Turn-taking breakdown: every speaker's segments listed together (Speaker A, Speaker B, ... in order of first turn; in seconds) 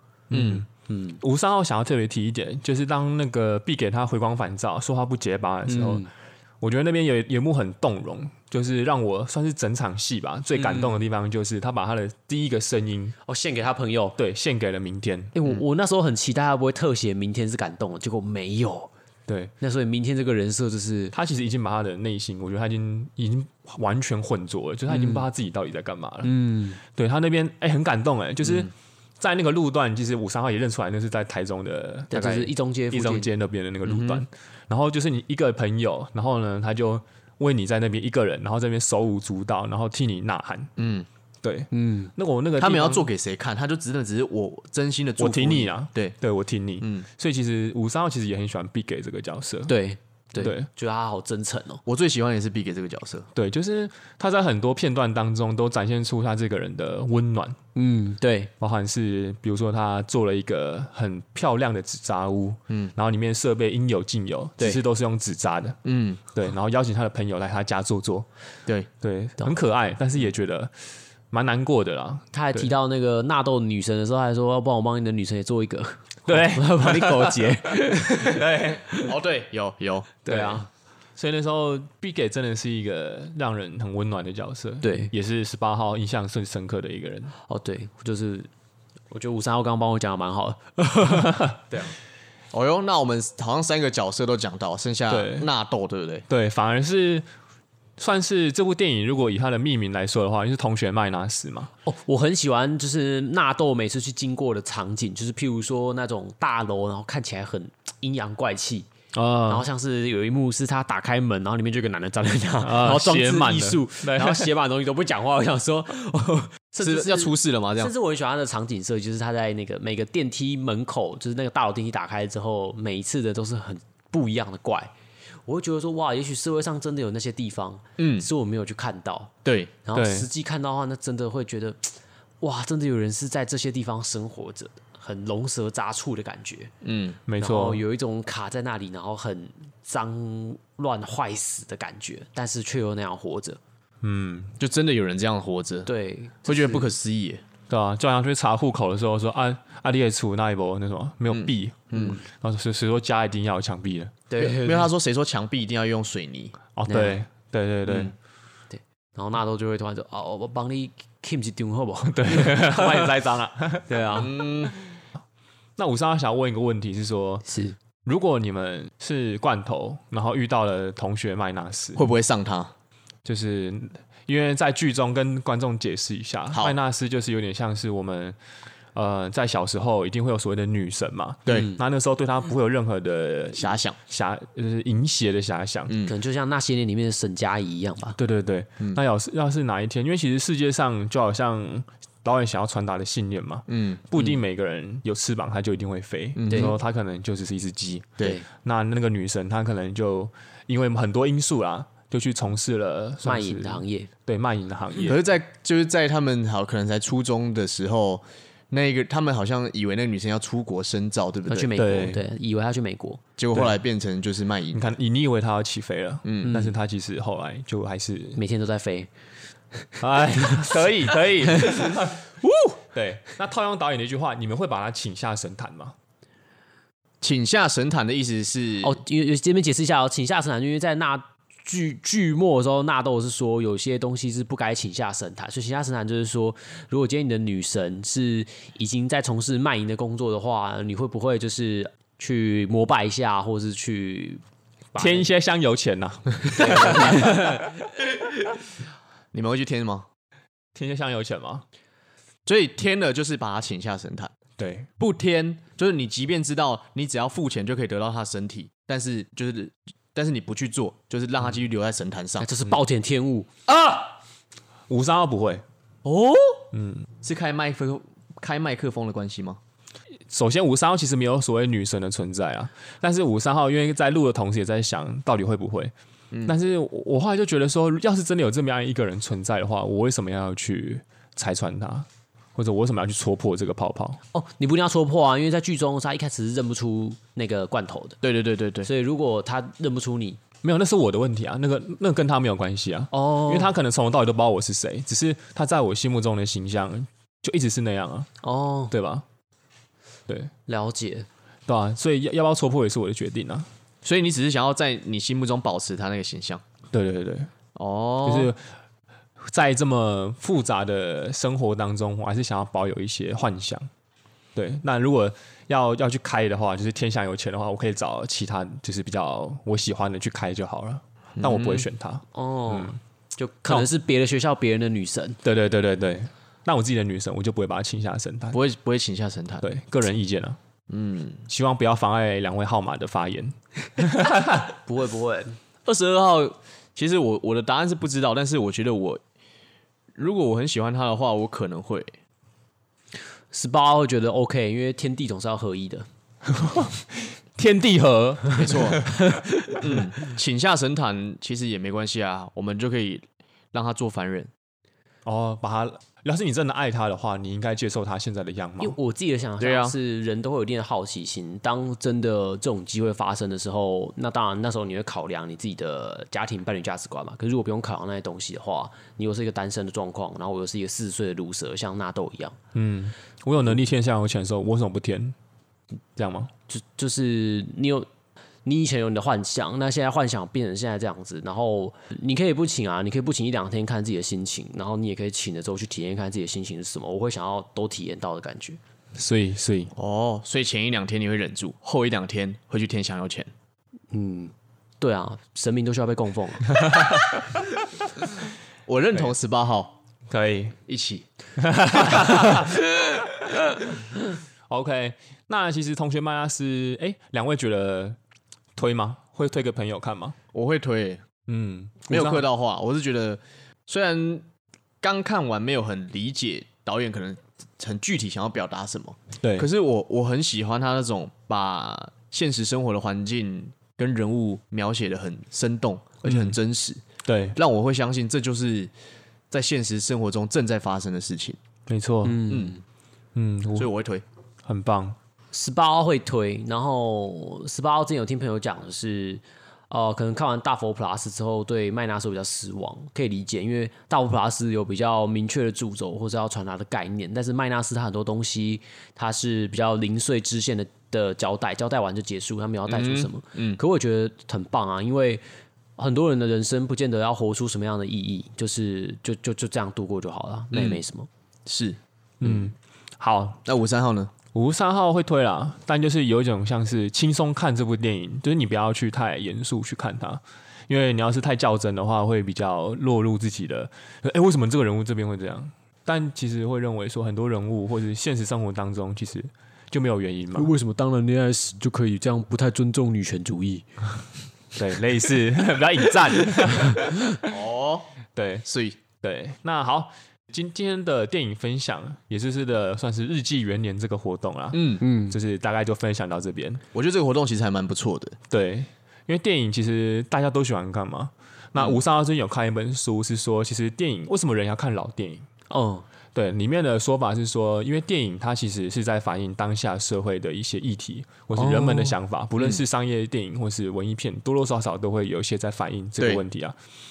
Speaker A: 0.3-0.7, 1.2-6.1, 6.6-13.2, 14.2-15.3, 19.3-19.5, 21.1-26.3, 26.8-40.7, 41.4-43.1, 45.2-49.7, 50.4-50.7, 53.3-57.6, 58.6-65.8, 66.3-68.3, 69.0-70.7, 71.3-72.7, 76.3-78.9, 80.3-80.6, 81.2-87.3, 91.1-91.5, 95.1-95.5, 96.3-97.2, 98.0-101.7, 109.1-109.6, 112.6-114.5, 129.9-130.3, 137.3-137.8, 144.0-144.6, 147.7-154.2, 156.8-158.1, 162.0-164.3, 165.8-167.5, 168.0-172.1, 173.2-178.4, 178.9-185.9, 188.2-205.2, 211.8-212.2, 214.7-218.4, 220.0-222.3, 222.9-226.0, 245.0-247.7, 250.8-251.6, 254.6-254.9, 264.9-265.6, 266.7-267.1, 270.3-275.9, 276.4-284.2, 290.6-298.3, 298.9-299.2, 301.7-303.7, 306.9-307.5, 308.2-308.7, 309.4-313.9, 314.6-323.0, 325.4-328.6, 329.6-330.6, 331.5-334.6, 346.6-347.0, 347.6-349.8, 355.3-359.0, 372.7-375.4, 376.2-376.5, 389.1-389.9, 396.8-397.4, 400.3-400.8, 401.6-403.8, 404.7-408.2, 408.8-410.4, 411.5-412.5, 419.4-419.7, 426.2-426.6, 427.3-427.6, 431.9-432.6, 433.4-433.9, 434.7-435.2, 462.4-463.6, 464.5-480.7, 484.8-487.2, 488.4-488.7, 489.2-496.8, 498.5-505.5, 506.4-516.8
Speaker B: 0.3-0.6, 28.4-28.7, 33.9-34.2, 40.8-41.1, 42.6-46.1, 46.8-47.1, 51.9-53.3, 65.8-66.2, 79.0-80.3, 92.5-96.3, 116.8-117.9, 128.0-128.3, 129.4-129.7, 136.8-137.2, 144.6-145.9, 146.4-147.4, 151.3-152.2, 154.4-156.6, 157.9-158.1, 164.2-164.7, 172.0-172.7, 183.6-184.0, 185.9-186.2, 193.7-194.0, 196.4-196.8, 204.9-211.8, 213.4-214.8, 216.2-216.6, 227.2-229.0, 249.3-250.1, 252.5-254.3, 255.0-262.5, 266.0-266.7, 267.2-269.6, 288.2-288.9, 304.0-306.6, 307.8-308.5, 321.4-321.9, 328.5-329.7, 330.9-331.5, 335.9-339.2, 340.1-342.1, 348.6-349.1, 349.8-354.5, 359.6-360.0, 390.0-393.5, 398.9-400.0, 400.9-401.3, 410.5-411.2, 412.1-414.5, 415.0-427.0, 427.6-428.9, 429.5-431.6, 432.5-432.8, 433.8-434.2, 452.9-453.8, 460.7-461.0, 461.7-462.7, 463.6-464.3, 487.5-488.1, 488.7-489.0, 494.7-495.0, 496.9-498.4, 516.2-516.4
Speaker C: 0.9-1.2, 5.7-6.1, 10.6-11.0, 13.2-14.2, 15.3-18.9, 19.6-21.1, 24.9-25.3, 26.2-26.8, 32.1-33.3, 41.7-42.1, 49.7-51.8, 57.8-58.5, 72.3-79.1, 80.3-80.7, 84.8-85.1, 87.5-88.5, 89.1-91.4, 101.9-108.9, 109.5-124.9, 125.5-129.3, 129.8-136.7, 137.4-143.6, 145.9-146.9, 154.3-154.9, 156.9-157.2, 158.7-163.2, 163.9-164.3, 167.5-167.8, 186.1-188.2, 196.5-196.8, 203.2-204.1, 211.5-213.2, 216.4-216.8, 218.4-219.1, 220.4-220.8, 228.8-244.4, 244.9-245.3, 246.5-247.6, 262.4-263.5, 284.3-288.2, 288.9-290.4, 293.1-293.7, 298.4-298.9, 300.7-301.3, 322.3-325.4, 334.5-335.6, 343.5-346.1, 358.8-372.6, 376.7-378.1, 378.6-388.8, 394.1-397.0, 432.2-432.8, 435.5-455.4, 456.0-461.3, 480.5-484.1, 495.0-495.4, 505.7-506.1, 511.6-512.2